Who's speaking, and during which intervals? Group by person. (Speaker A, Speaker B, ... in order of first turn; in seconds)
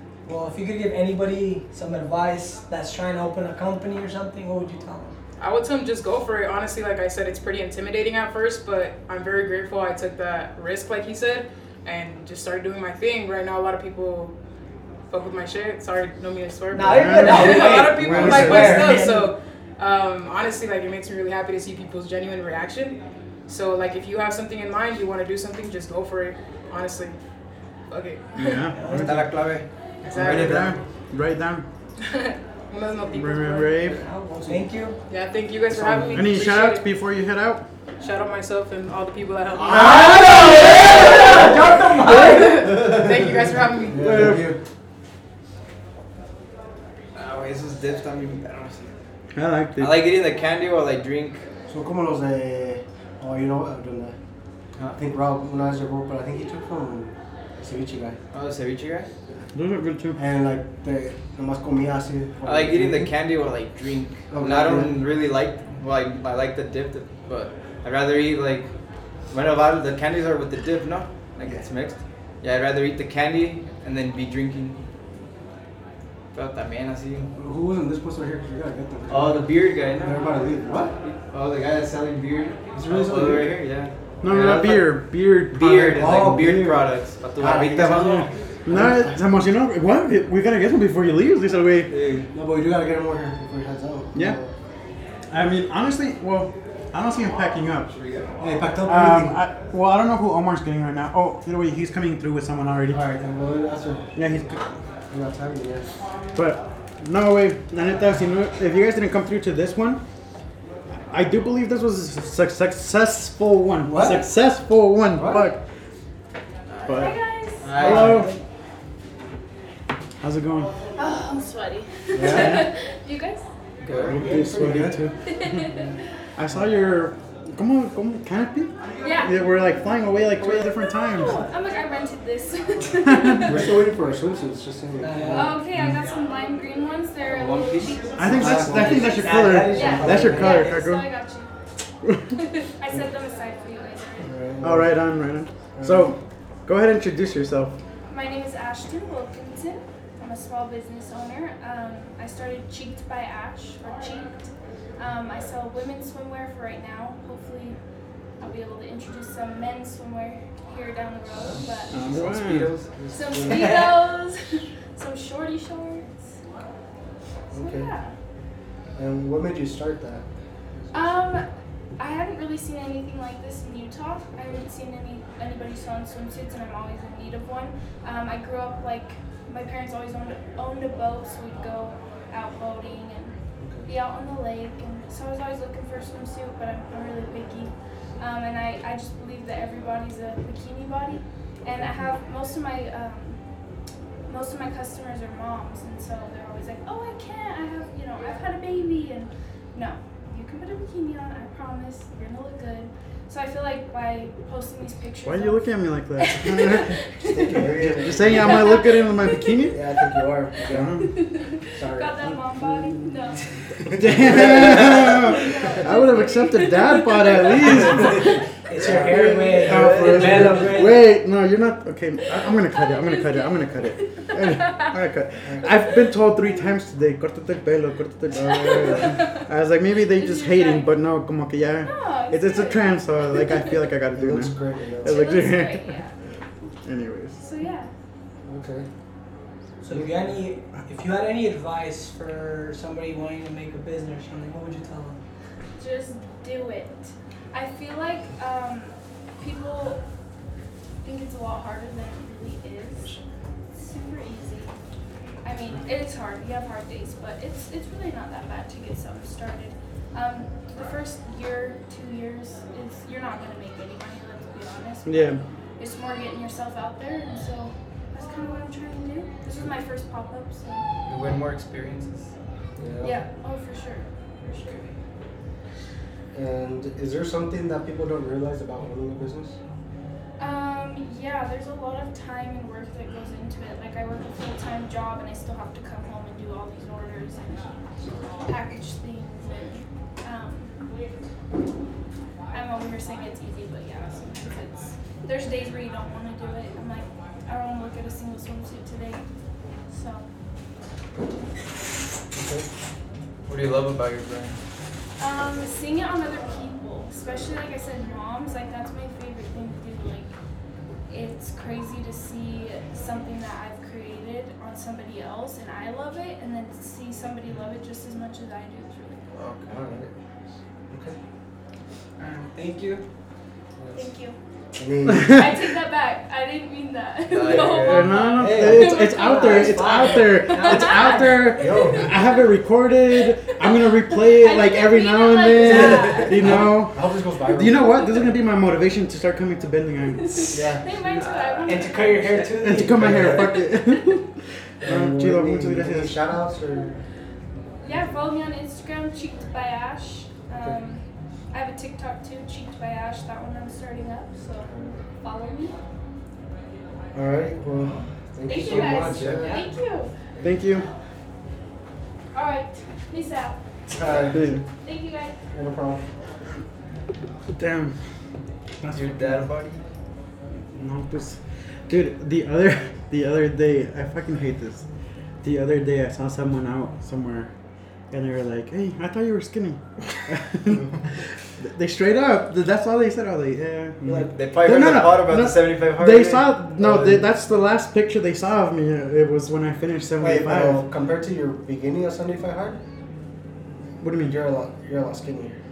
Speaker A: 0.2-5.2, 16.7-19.3, 28.7-29.2, 33.4-35.0, 39.6-42.9, 118.0-118.3, 135.0-135.6, 138.4-140.6, 218.7-221.1, 239.8-245.2, 322.2-323.0, 328.4-332.0, 335.6-336.6, 341.6-343.5, 358.9-359.7
Speaker B: 5.4-14.3, 15.1-27.2, 27.9-28.7, 30.0-30.7, 32.0-33.6, 35.1-36.8, 38.0-44.0
Speaker C: 16.8-19.0, 28.4-29.3, 30.1-31.6, 33.1-34.0, 36.1-37.6, 44.0-44.5, 49.3-50.0, 59.5-60.2, 84.2-85.8, 87.8-91.9, 95.3-97.9, 98.8-103.0, 104.1-104.6, 106.3-110.0, 111.1-115.6, 116.9-117.1, 117.8-118.3, 120.2-120.7, 122.2-122.7, 124.0-125.7, 126.4-131.4, 133.1-133.6, 135.8-136.0, 138.2-141.1, 144.6-147.8, 161.9-162.8, 205.2-207.0, 207.7-209.8, 210.6-211.1, 212.4-212.9, 213.9-218.3, 218.9-236.0, 236.8-237.4, 265.1-265.4, 325.1-325.5, 327.8-340.5, 342.6-344.3, 344.8-346.3, 360.4-360.9, 364.3-364.6, 367.5-368.0, 368.8-369.5, 370.7-374.9, 375.4-377.5, 378.1-380.9, 381.6-390.8, 394.0-394.4
Speaker D: 28.9-29.6, 30.2-30.7, 47.1-48.9, 49.8-51.4, 58.3-59.1, 62.4-68.7, 69.3-74.8, 76.3-77.3, 79.1-80.5, 81.0-84.9, 85.5-88.3, 91.9-92.3, 97.9-98.3, 117.6-118.3, 123.8-124.3, 137.2-138.2, 161.9-163.7, 271.1-272.3, 303.5-304.6, 319.3-319.8, 327.2-328.2, 341.2-342.6, 358.7-359.5, 368.9-369.8, 384.3-386.6
Speaker E: 43.8-44.6, 51.7-54.1, 55.0-58.2, 60.2-63.1, 64.3-65.0, 77.3-81.0, 82.7-83.6, 85.6-89.2, 92.3-94.5, 98.4-99.4, 102.9-104.5, 105.1-106.0, 113.8-114.3, 115.1-115.5, 117.8-118.3, 122.1-122.6, 124.0-125.0, 133.4-135.6, 138.3-140.6, 144.2-145.1, 145.8-146.1, 162.9-163.9, 167.5-167.9, 169.0-170.2, 170.8-171.1, 183.6-183.9, 191.7-192.1, 207.2-208.7, 209.7-211.0, 211.8-212.2, 213.8-215.2, 218.8-220.7, 234.1-235.3, 238.4-238.9, 239.9-240.4, 272.8-273.2, 276.3-279.6, 302.3-302.7, 319.7-320.1, 320.9-321.2, 323.8-324.1, 324.8-325.4, 328.4-329.0, 331.6-332.1, 335.8-338.3, 340.5-340.9, 342.9-343.5, 344.8-346.9, 347.8-348.2, 354.6-355.0, 357.1-359.7, 363.9-364.5, 365.5-366.0, 384.1-384.3, 386.8-387.2, 390.2-392.8, 394.2-395.6
Speaker F: 116.9-117.8, 121.0-123.5, 125.2-126.0, 129.0-129.7, 130.4-133.8, 135.3-141.5, 142.4-144.3, 148.1-157.8, 158.4-162.1, 163.1-166.3, 167.5-168.1, 170.9-171.5, 172.0-183.3, 183.9-193.4, 194.3-210.2, 211.0-213.4, 214.1-218.4, 222.3-224.9, 228.4-229.5, 230.1-230.9, 231.8-233.8, 235.0-236.2, 237.4-237.9, 245.8-250.0, 251.0-253.2, 253.7-254.8, 255.4-270.8, 273.0-275.0, 280.4-290.8, 292.5-299.2, 299.9-300.3, 305.2-310.3, 311.1-319.2, 323.9-324.4, 325.2-331.1, 333.1-336.4, 340.2-342.2, 347.8-354.7, 355.2-355.8, 358.5-360.1, 362.3-363.6, 364.8-365.4